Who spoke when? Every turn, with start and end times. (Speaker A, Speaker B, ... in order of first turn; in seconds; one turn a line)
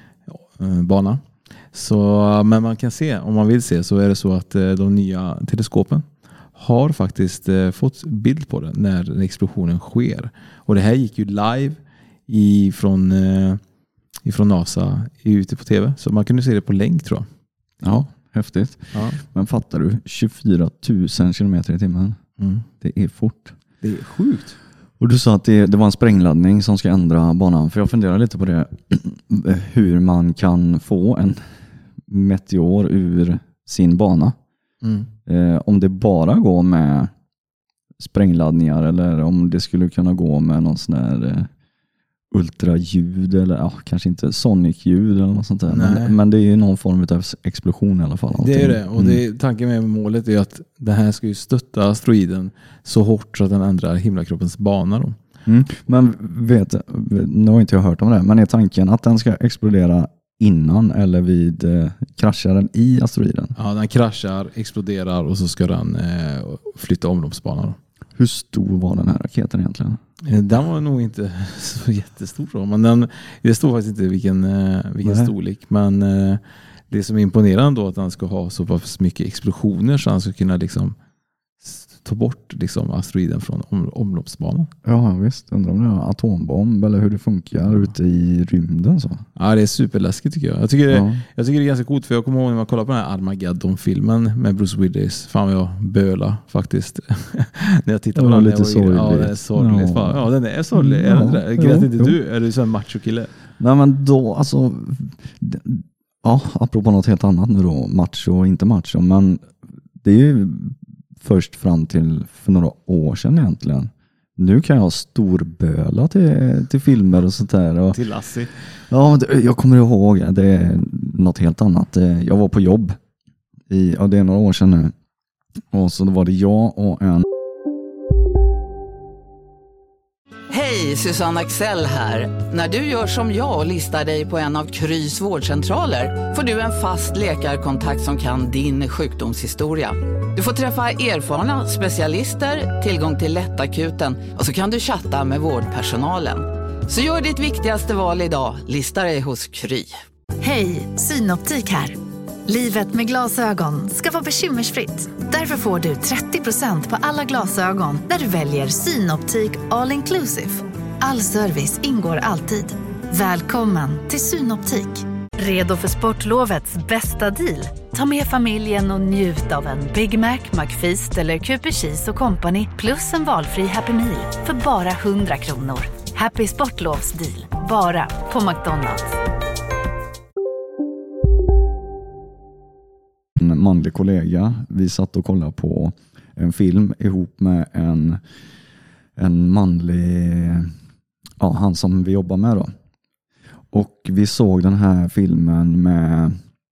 Speaker A: 0.3-6.0
Speaker A: 6.6-13.6
Speaker A: 14.2-17.3
Speaker B: 17.8-22.2
Speaker A: 18.9-19.2
Speaker A: 22.4-22.7
Speaker B: 22.8-23.6
Speaker A: 23.8-24.6
Speaker B: 25.0-31.4
Speaker B: 32.1-34.4
Speaker A: 34.8-35.1
Speaker B: 35.3-37.1
Speaker B: 38.0-41.5
Speaker B: 42.3-49.2
Speaker A: 45.7-46.2
Speaker A: 48.4-55.2
Speaker B: 55.5-63.5
Speaker A: 63.6-67.8
Speaker B: 68.2-70.0
Speaker A: 70.2-81.0
Speaker B: 75.0-75.3
Speaker A: 81.6-84.7
Speaker B: 84.8-89.2
Speaker A: 89.4-103.3
Speaker B: 90.9-91.2
Speaker B: 98.2-102.2
Speaker B: 103.6-109.4
Speaker B: 110.0-118.0
Speaker A: 117.9-118.5
Speaker B: 118.9-123.0
Speaker B: 123.7-124.9
Speaker B: 125.7-127.3
Speaker C: 130.5-149.9
Speaker D: 150.4-179.2
Speaker B: 183.4-188.2
Speaker B: 189.2-190.7
Speaker B: 191.4-192.7
Speaker B: 193.7-196.4